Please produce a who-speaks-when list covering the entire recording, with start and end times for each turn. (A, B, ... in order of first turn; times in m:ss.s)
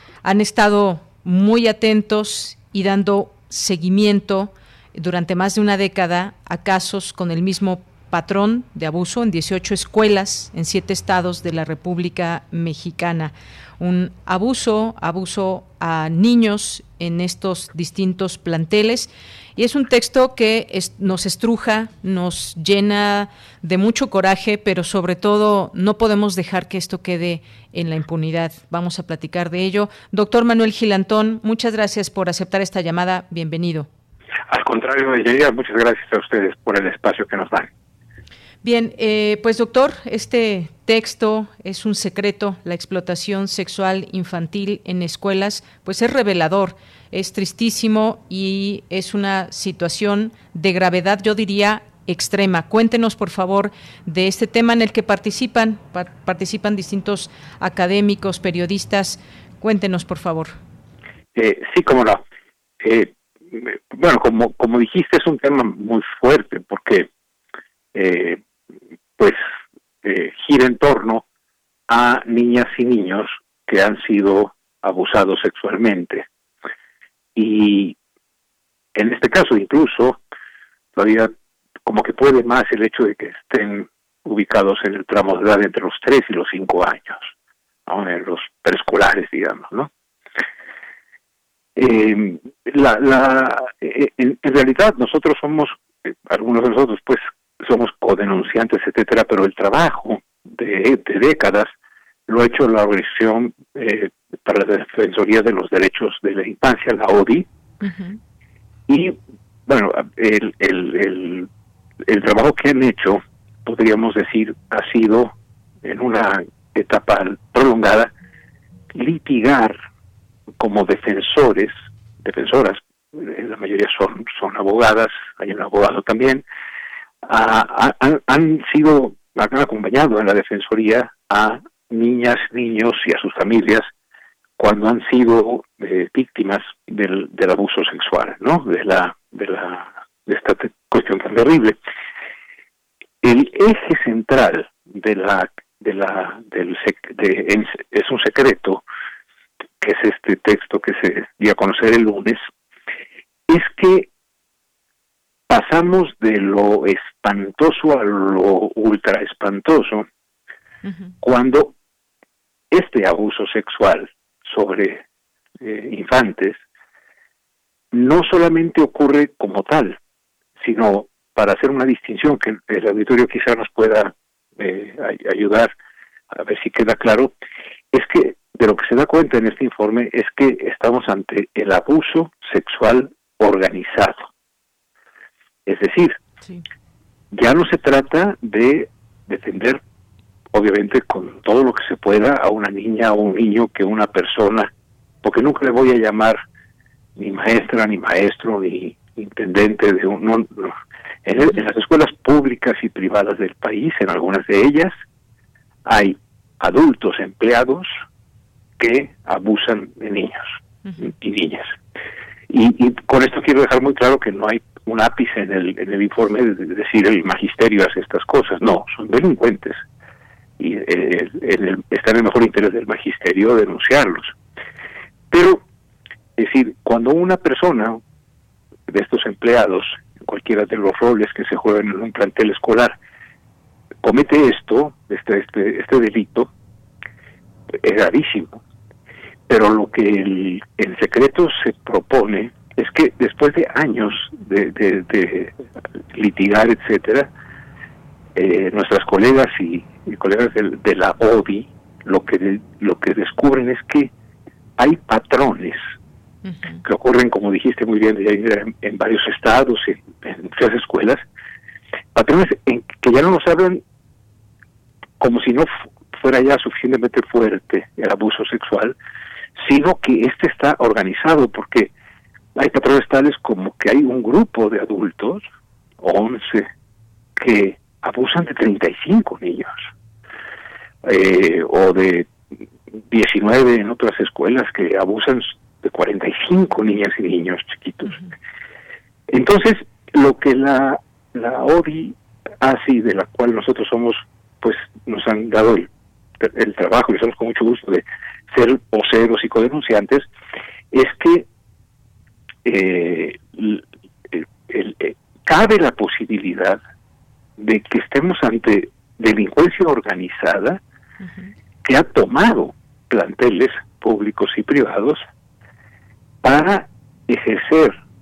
0:00.2-0:33.9 A
0:34.5-0:37.7 B
0:38.6-1:00.6 A
1:01.4-1:02.2 B
1:02.8-1:07.1 B
1:08.0-1:08.4 B
1:10.0-1:11.2 B
1:11.9-1:16.3 B
1:17.4-1:18.0 B
1:19.0-1:20.2 B
1:21.0-1:21.3 B
1:21.8-1:27.3 B
1:27.9-1:29.9 B
1:31.8-1:41.7 B
1:42.3-1:47.5 B
1:47.8-1:48.2 A
1:48.9-1:51.5 B
1:52.1-1:58.1 B
1:58.9-1:59.8 B
2:00.6-2:06.4 B
2:07.3-2:13.9 B
2:14.6-2:21.8 B
2:23.2-2:28.8 B
2:29.8-2:32.4 B
2:33.5-2:34.1 B
2:35.5-2:40.1 B
2:40.8-2:41.1 A
2:41.2-2:41.7 B
2:42.7-2:45.0 B
2:45.6-2:46.6 B
2:47.9-2:50.0 B
2:50.6-2:55.7 B
2:56.3-2:57.3 B
2:57.9-3:04.3 B
3:05.7-3:06.2 B
3:07.3-3:09.8 B
3:10.5-3:14.7 B
3:15.2-3:16.4 B
3:17.2-3:20.8 B
3:21.3-3:24.9 B
3:25.9-3:27.9 B
3:28.8-3:31.7 B
3:30.8-3:31.1 A
3:32.5-3:39.8 B
3:40.6-3:44.4 B
3:45.3-3:45.6 B
3:46.4-3:48.0 B
3:48.9-3:53.0 B
3:54.0-3:56.5 B
3:57.7-3:58.6 B
3:59.5-4:05.6 B
4:06.1-4:07.3 B
4:08.4-4:14.1 B
4:14.8-4:15.8 B
4:16.4-4:16.8 A
4:16.8-4:21.2 B
4:22.2-4:23.8 B
4:25.2-4:29.0 B
4:29.6-4:31.9 B
4:32.6-4:35.4 B
4:36.0-4:36.7 B
4:37.4-4:39.8 B
4:41.0-4:42.5 B
4:43.1-4:48.2 B
4:49.3-4:55.9 B
4:56.4-5:00.3 B
5:00.9-5:01.5 B
5:02.6-5:06.8 B
5:07.6-5:10.8 B
5:11.2-5:11.5 A
5:11.8-5:15.2 B
5:16.4-5:18.0 B